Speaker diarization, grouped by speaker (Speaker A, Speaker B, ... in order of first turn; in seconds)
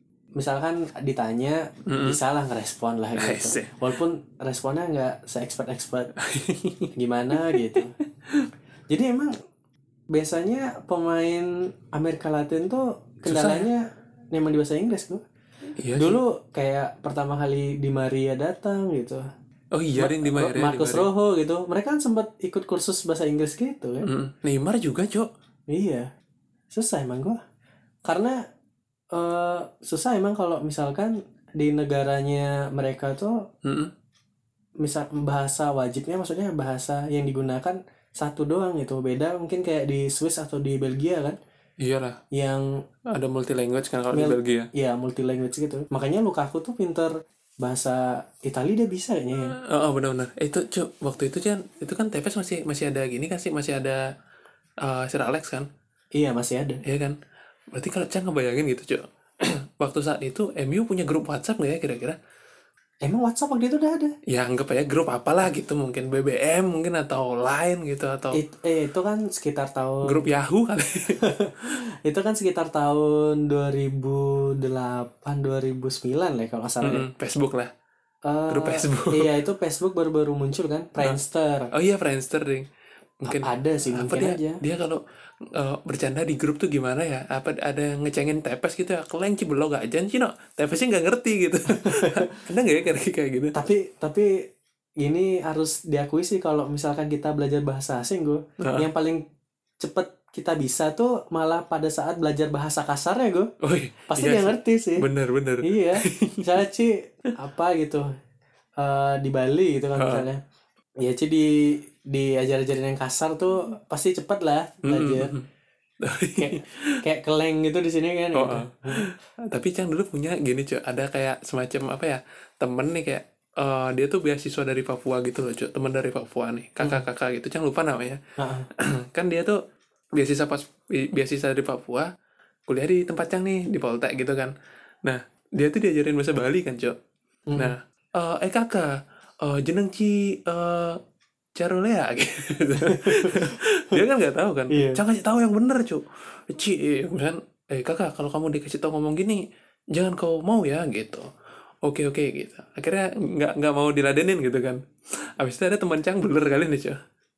Speaker A: 0.3-6.1, 6.9-7.9, 8.9-9.3, 10.1-15.2, 16.0-19.3, 19.9-24.1, 25.7-26.1, 26.7-27.4, 28.1-28.4, 29.1-33.4, 34.8-41.4, 42.3-42.7, 44.1-49.5, 56.1-56.8, 63.0-64.1, 68.3-70.2, 71.2-77.0, 78.2-81.7, 83.3-84.6, 91.8-92.1, 93.5-94.4, 95.0-99.2, 99.8-103.5, 104.1-105.0, 105.6-108.1, 108.8-110.4, 111.0-115.3, 116.4-119.1, 128.4-128.7, 137.5-137.7, 142.9-143.3, 144.7-145.0
Speaker B: 1.9-2.2, 3.2-3.7, 6.2-6.9, 13.2-13.7, 15.8-16.2, 19.7-21.1, 24.1-25.3, 33.6-33.9, 41.8-42.2, 43.1-44.7, 49.6-54.0, 54.8-55.7, 56.8-57.2, 57.7-62.2, 64.3-68.4, 70.0-71.2, 76.8-77.7, 78.5-79.3, 81.7-82.7, 83.2-85.0, 85.5-93.5, 98.6-98.9, 103.6-106.5, 110.0-110.2, 114.8-115.4, 116.0-116.7, 118.3-128.2, 128.8-129.6, 130.2-132.1, 132.7-134.5, 135.0-137.0, 137.6-141.0, 141.6-151.3, 151.8-157.0